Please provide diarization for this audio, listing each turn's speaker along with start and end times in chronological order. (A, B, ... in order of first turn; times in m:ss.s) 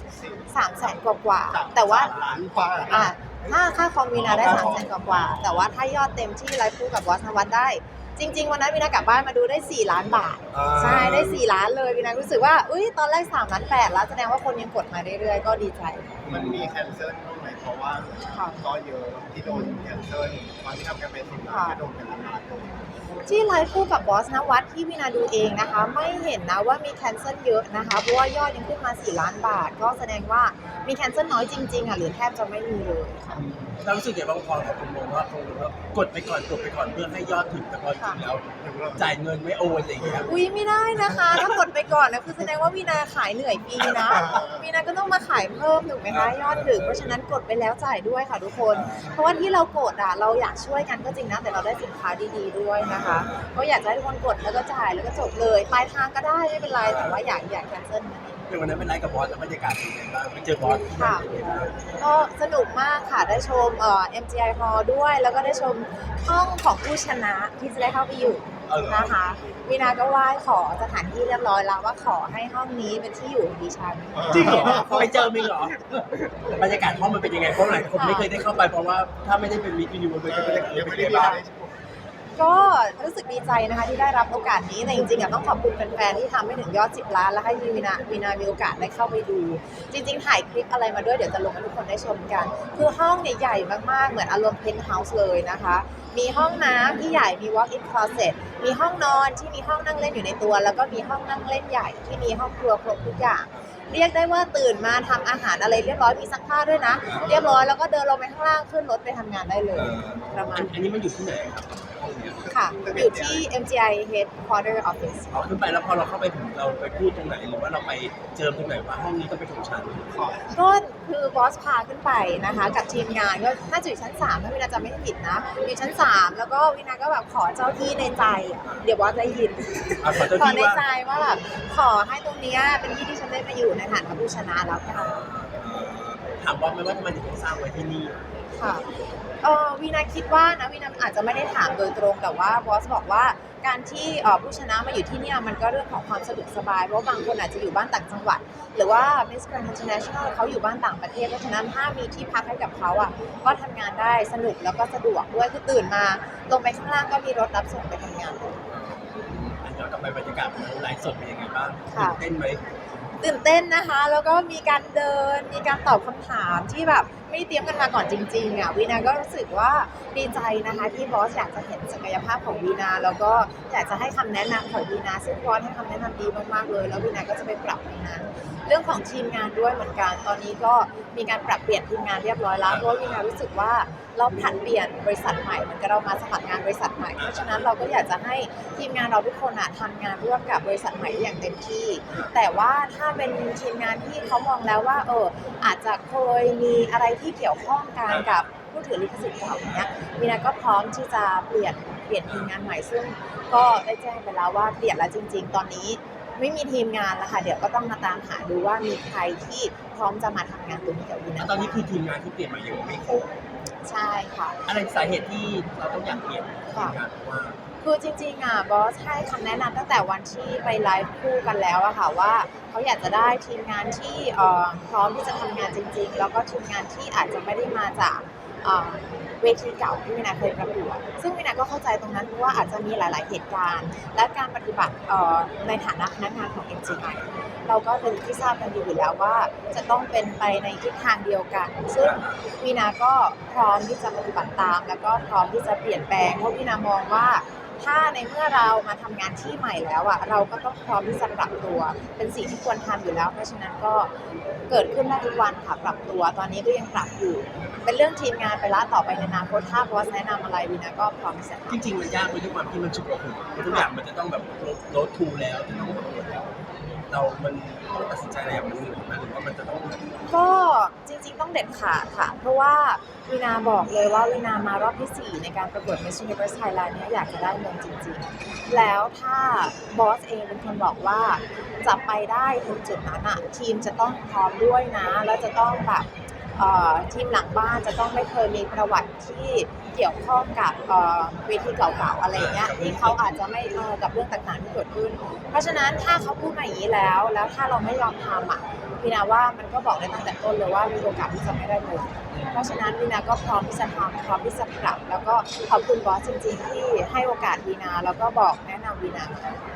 0:00.1-0:00.5 A
0:00.5-0:02.1 B
0:01.5-0:03.1 A
0:01.8-0:03.0 C
0:02.9-0:16.1 B
0:04.1-0:05.7 C
0:10.5-0:11.4 C
0:16.2-0:16.6 C
0:16.3-0:22.8 A
0:18.3-0:18.6 B
0:19.5-0:19.9 B
0:21.5-0:21.8 B
0:23.2-0:33.4 B
0:33.3-0:40.3 C
0:38.6-0:39.1 A
0:40.3-0:58.4 B
0:44.1-0:44.7 A
0:46.1-0:47.2 C
0:48.7-0:49.1 C
0:52.8-0:53.5 C
0:56.8-0:57.2 C
0:58.5-1:01.8 C
1:01.0-1:01.2 B
1:02.0-1:15.1 B
1:08.7-1:09.2 C
1:14.1-1:15.5 A
1:14.3-1:21.4 C
1:17.9-1:18.3 B
1:20.2-1:21.7 A
1:22.4-1:50.8 B
1:47.0-1:47.4 C
1:47.1-1:47.6 A
1:49.7-1:52.4 C
1:52.4-1:53.5 A
1:52.5-1:55.4 B
1:55.3-2:00.1 C
2:00.1-2:00.6 A
2:00.6-2:15.2 B
2:08.6-2:08.9 C
2:10.0-2:10.8 C
2:14.9-2:18.2 C
2:18.6-2:18.9 B
2:19.4-2:38.6 B
2:38.7-2:42.6 C
2:41.9-2:42.2 B
2:43.2-3:31.9 B
3:02.6-3:03.2 C
3:07.2-3:07.7 C
3:18.1-3:18.4 C
3:31.4-3:33.3 C
3:33.8-3:34.6 B
3:34.7-3:37.6 C
3:36.7-3:37.0 B
3:37.8-4:14.1 B
4:02.0-4:02.4 C
4:14.7-4:21.8 B
4:21.7-4:26.5 C
4:27.1-4:30.1 C
4:30.3-5:09.6 B
4:52.3-4:53.4 C
5:02.3-5:02.8 C